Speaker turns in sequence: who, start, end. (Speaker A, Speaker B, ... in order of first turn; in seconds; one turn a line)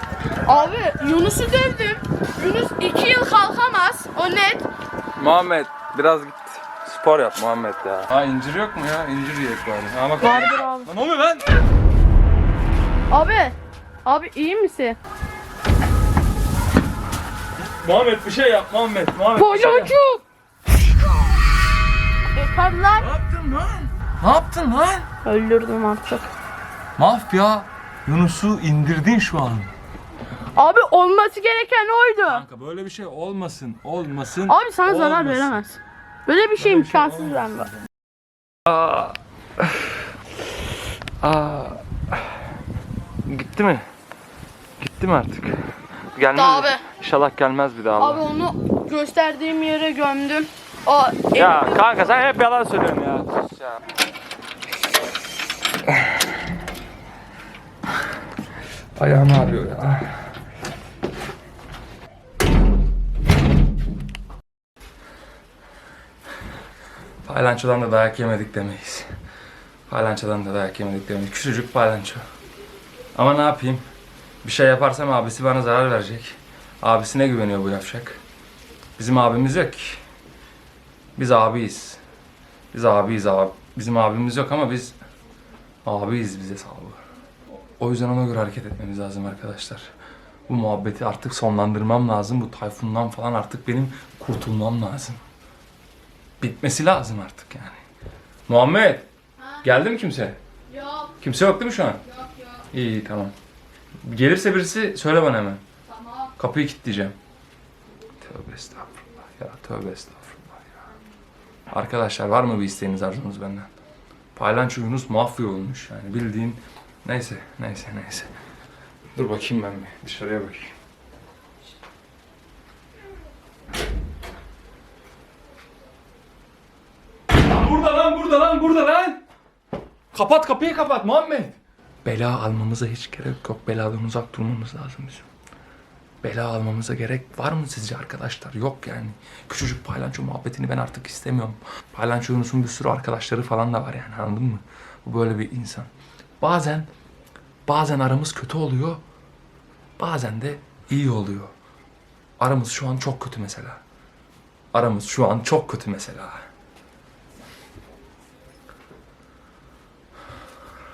Speaker A: 0.5-4.7
Speaker B: 5.2-11.5
Speaker A: 10.2-10.9
Speaker A: 13.1-15.0
Speaker B: 17.6-19.9
Speaker A: 19.4-20.2
Speaker A: 22.3-23.1
Speaker B: 22.9-25.1
Speaker A: 25.2-26.3
Speaker B: 27.0-29.7
Speaker A: 30.6-32.5
Speaker B: 32.3-35.6
Speaker A: 34.5-37.7
Speaker B: 36.6-37.8
Speaker B: 38.7-40.1
Speaker B: 41.2-42.4
Speaker B: 43.3-43.9
Speaker B: 44.8-45.5
Speaker B: 46.1-48.2
Speaker A: 46.3-46.9
Speaker A: 48.0-52.1
Speaker B: 51.3-53.8
Speaker B: 59.0-60.2
Speaker B: 67.2-69.1
Speaker B: 69.9-72.2
Speaker B: 73.2-73.8
Speaker B: 74.4-78.2
Speaker B: 79.0-80.0
Speaker B: 81.2-82.0
Speaker B: 82.7-85.0
Speaker B: 85.8-87.0
Speaker B: 87.8-89.9
Speaker B: 90.5-95.2
Speaker B: 96.4-97.8
Speaker B: 98.5-99.1
Speaker A: 99.4-99.6
Speaker B: 99.6-100.4
Speaker A: 100.7-101.2
Speaker B: 101.2-102.0
Speaker B: 102.7-103.3
Speaker B: 104.0-105.6
Speaker A: 105.9-106.3
Speaker B: 106.4-107.2
Speaker B: 108.2-110.8
Speaker B: 111.7-113.7
Speaker B: 114.3-118.3
Speaker B: 119.1-120.8
Speaker B: 127.4-129.2
Speaker B: 130.1-135.3
Speaker B: 136.2-146.9
Speaker B: 147.7-149.0
Speaker B: 150.0-151.5
Speaker B: 152.4-153.8
Speaker B: 154.7-156.5